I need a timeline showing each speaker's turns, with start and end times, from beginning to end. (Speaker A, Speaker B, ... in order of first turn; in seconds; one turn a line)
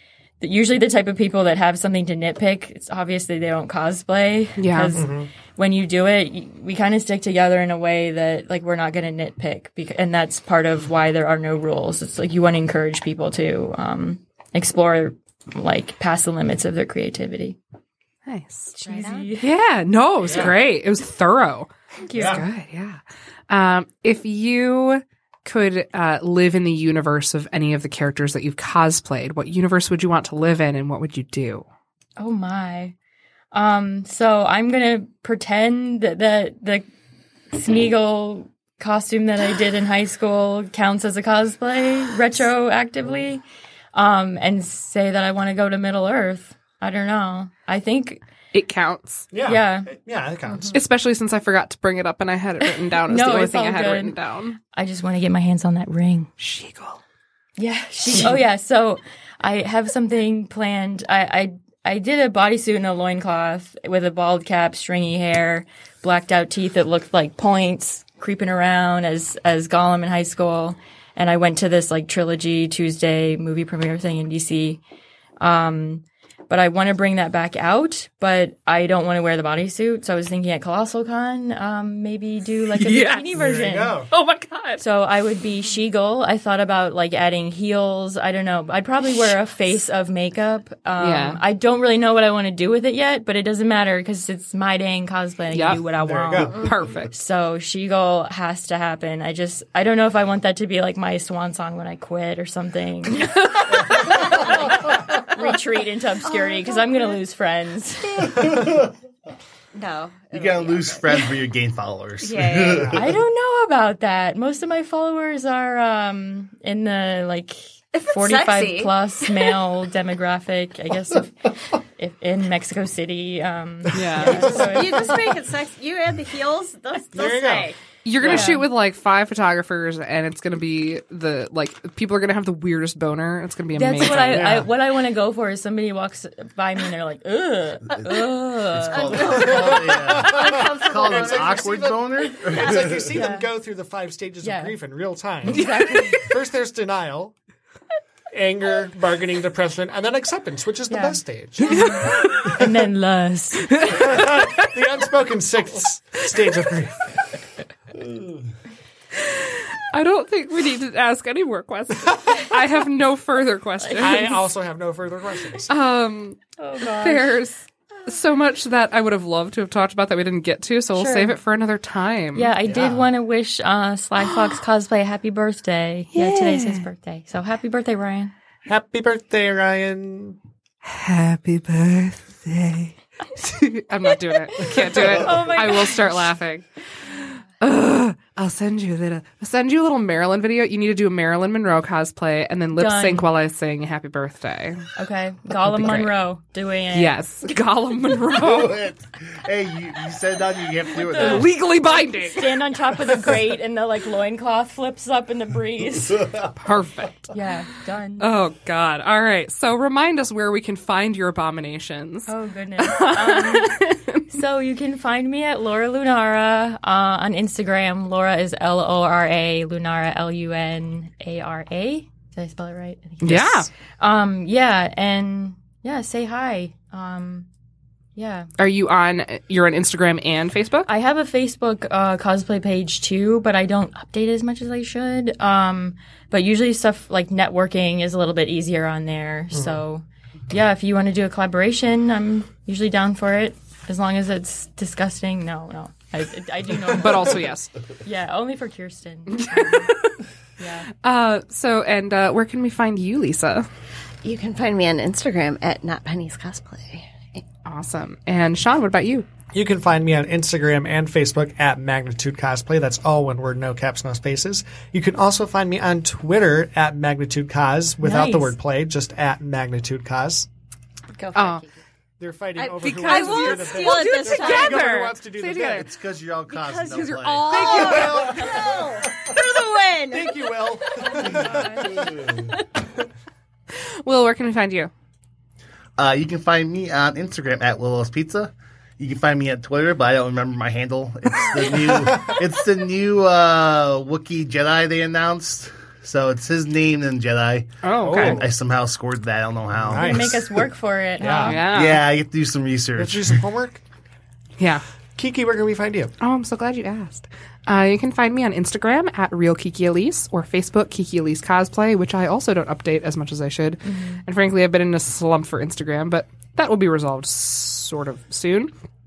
Speaker A: 0.4-17.6
Speaker B: 4.6-5.0
Speaker C: 4.9-5.3
Speaker B: 18.2-18.8
Speaker D: 18.8-19.4
Speaker A: 18.8-19.5
Speaker B: 19.4-31.6
Speaker C: 20.2-20.5
Speaker A: 22.0-22.4
Speaker C: 22.1-22.4
Speaker A: 32.2-32.9
Speaker A: 33.5-36.9
Speaker A: 37.5-43.4
Speaker A: 43.9-48.2
Speaker B: 48.5-49.3
Speaker C: 49.3-50.8
Speaker A: 49.4-49.9
Speaker B: 50.7-54.6
Speaker A: 52.6-54.2
Speaker A: 54.7-56.3
Speaker B: 56.4-57.0
Speaker A: 57.6-74.8
Speaker A: 75.4-84.0
Speaker B: 82.7-83.3
Speaker C: 83.3-84.1
Speaker B: 84.1-84.8
Speaker A: 84.8-108.5
Speaker B: 91.0-91.4
Speaker B: 95.5-95.8
Speaker C: 95.9-96.7
Speaker B: 96.5-97.1
Speaker D: 104.3-104.6
Speaker D: 106.2-107.2
Speaker E: 108.4-108.9
Speaker D: 109.7-111.4
Speaker E: 110.3-113.0
Speaker D: 112.2-113.0
Speaker C: 112.7-113.0
Speaker A: 112.9-125.3
Speaker D: 117.9-119.5
Speaker C: 123.9-125.0
Speaker B: 123.9-124.6
Speaker D: 124.5-128.5
Speaker C: 127.1-127.7
Speaker B: 128.0-134.6
Speaker A: 128.2-128.7
Speaker A: 133.8-139.3
Speaker C: 134.1-134.7
Speaker E: 138.7-143.2
Speaker D: 138.9-141.9
Speaker C: 139.6-147.3
Speaker D: 142.4-143.1
Speaker A: 143.1-143.5
Speaker A: 144.4-144.8
Speaker A: 145.4-146.2
Speaker B: 145.5-146.2
Speaker C: 148.3-151.9
Speaker A: 150.9-154.0
Speaker B: 151.7-152.5
Speaker B: 153.7-154.6
Speaker C: 153.9-157.2
Speaker B: 159.2-164.4
Speaker A: 163.8-164.3
Speaker C: 164.0-165.7
Speaker B: 165.7-172.5
Speaker A: 166.6-167.4
Speaker A: 170.9-171.4
Speaker A: 172.3-178.3
Speaker C: 172.7-173.0
Speaker B: 176.1-176.8
Speaker C: 178.7-180.4
Speaker B: 180.8-194.9
Speaker A: 184.6-186.3
Speaker A: 192.8-193.3
Speaker A: 195.0-197.2
Speaker B: 195.6-196.1
Speaker B: 196.9-198.9
Speaker E: 198.3-201.5
Speaker A: 201.0-206.4
Speaker B: 201.0-202.6
Speaker B: 206.6-207.3
Speaker A: 207.3-208.3
Speaker B: 208.2-214.2
Speaker A: 212.3-227.5
Speaker B: 223.2-223.7
Speaker A: 228.2-228.5
Speaker B: 228.6-230.9
Speaker A: 230.9-249.9
Speaker C: 239.5-239.8
Speaker B: 246.9-247.7
Speaker B: 249.3-250.2
Speaker A: 250.6-250.9
Speaker B: 251.0-253.7
Speaker D: 254.2-257.4
Speaker B: 257.6-259.3
Speaker C: 259.5-270.5
Speaker A: 268.0-268.5
Speaker D: 271.1-271.7
Speaker B: 271.3-271.6
Speaker C: 272.2-275.9
Speaker D: 272.6-274.9
Speaker B: 272.8-275.9
Speaker E: 275.6-277.9
Speaker D: 276.5-282.6
Speaker B: 276.9-278.5
Speaker C: 277.5-279.0
Speaker C: 280.1-282.1
Speaker A: 281.0-282.1
Speaker B: 283.7-284.9
Speaker E: 286.0-300.4
Speaker C: 291.8-292.4
Speaker B: 297.8-298.4
Speaker C: 298.0-298.5
Speaker C: 299.7-300.7
Speaker A: 300.0-301.6
Speaker C: 301.2-301.6
Speaker B: 301.3-302.1
Speaker E: 301.7-303.4
Speaker C: 302.9-303.8
Speaker C: 305.1-306.1
Speaker B: 306.2-318.7
Speaker A: 313.9-314.2